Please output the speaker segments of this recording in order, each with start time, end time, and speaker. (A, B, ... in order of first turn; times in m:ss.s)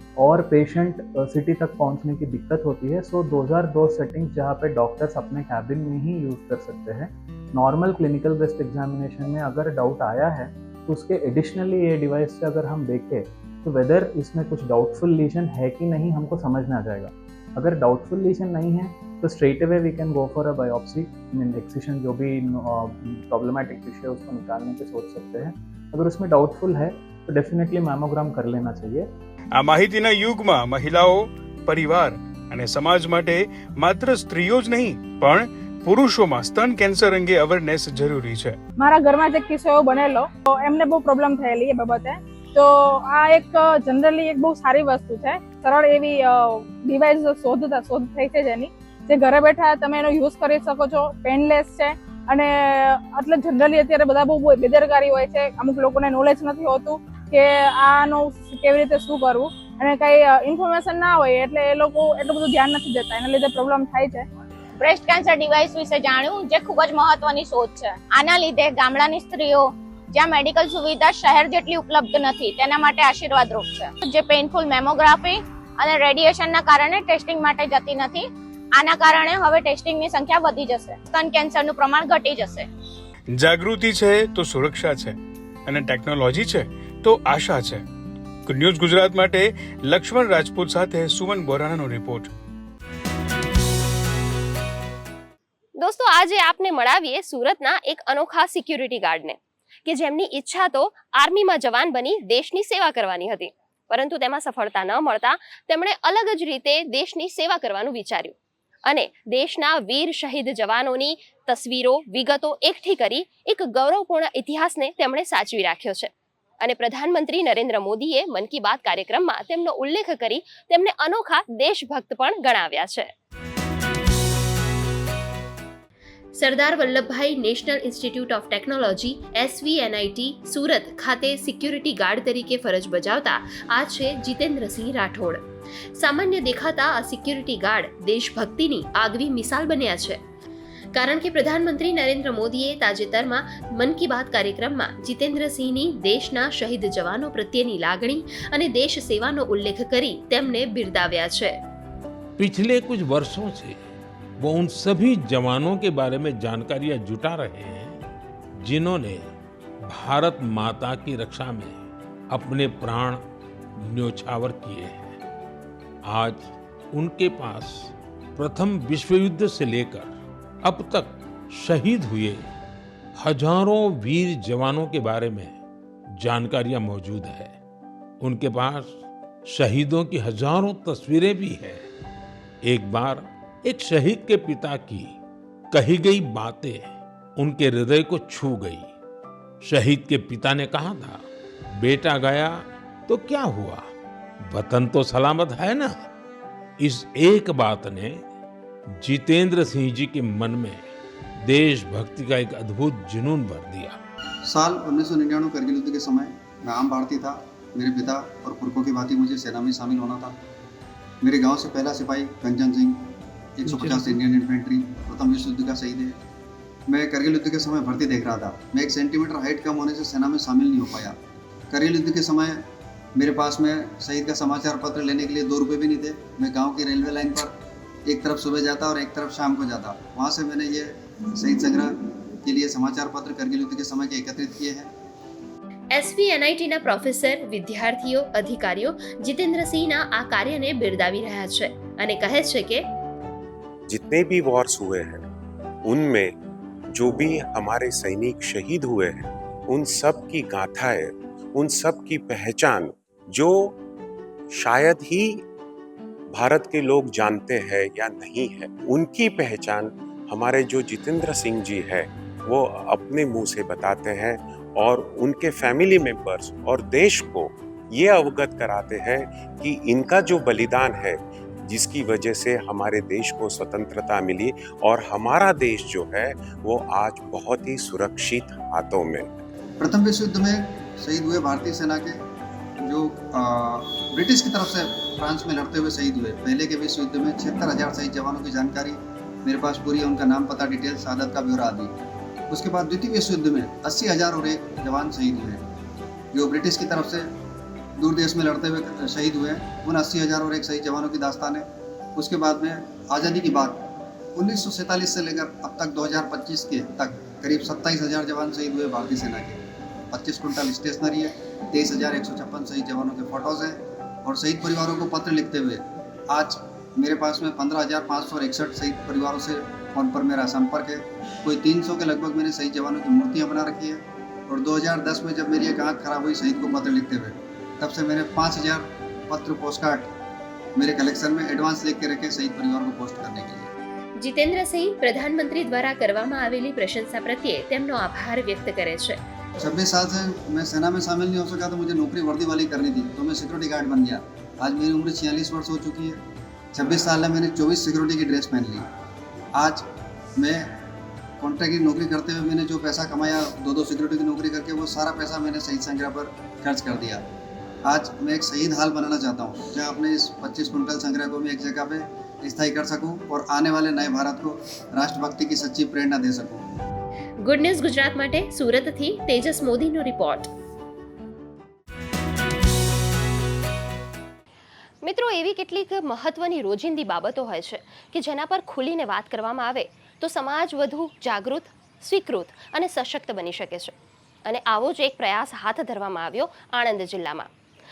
0:00.2-0:29.1 A
0:29.6-0:38.6 B
0:38.8-1:04.2 C
1:04.8-1:22.7 D
1:23.3-1:27.8 B
1:28.4-1:32.3 B
1:35.8-1:48.3 E
1:48.9-2:03.1 E
2:06.4-2:15.4 E
2:16.0-2:20.2 E
2:20.9-2:31.6 E
2:32.4-2:33.9 F
2:34.4-2:38.0 F
2:38.6-2:39.3 F
2:39.9-2:43.2 F
2:43.8-2:45.2 F
2:46.0-2:52.5 F
2:53.2-2:55.6 F
2:56.2-2:57.6 F
2:58.2-3:01.8 F
3:02.6-3:05.2 F
3:05.7-3:08.9 F
3:09.6-3:11.2 F
3:11.8-3:13.9 F
3:14.5-3:16.0 F
3:16.8-3:18.2 F
3:19.0-3:20.9 F
3:21.4-3:24.0 F
3:24.4-3:30.4 G
3:31.2-3:33.0 G
3:33.6-3:36.2 G
3:36.9-3:41.2 G
3:41.7-3:47.5 G
3:48.0-3:54.9 G
3:55.9-4:02.8 E
4:03.9-4:05.2 H
4:05.8-4:06.3 H
4:06.9-4:13.7 H
4:14.5-4:15.4 H
4:16.3-4:39.4 H
4:39.8-4:42.2 G
4:42.8-4:52.0 G
4:52.5-4:55.6 G
4:56.3-4:57.3 G
4:58.0-5:30.1 G
5:30.8-5:33.7 G
5:34.2-5:39.2 E
5:39.6-5:46.2 G
5:46.7-5:48.9 G
5:49.5-5:50.8 G
5:51.4-5:57.3 G
5:57.8-6:06.6 G
6:07.4-6:10.5 E
6:15.0-6:27.5 E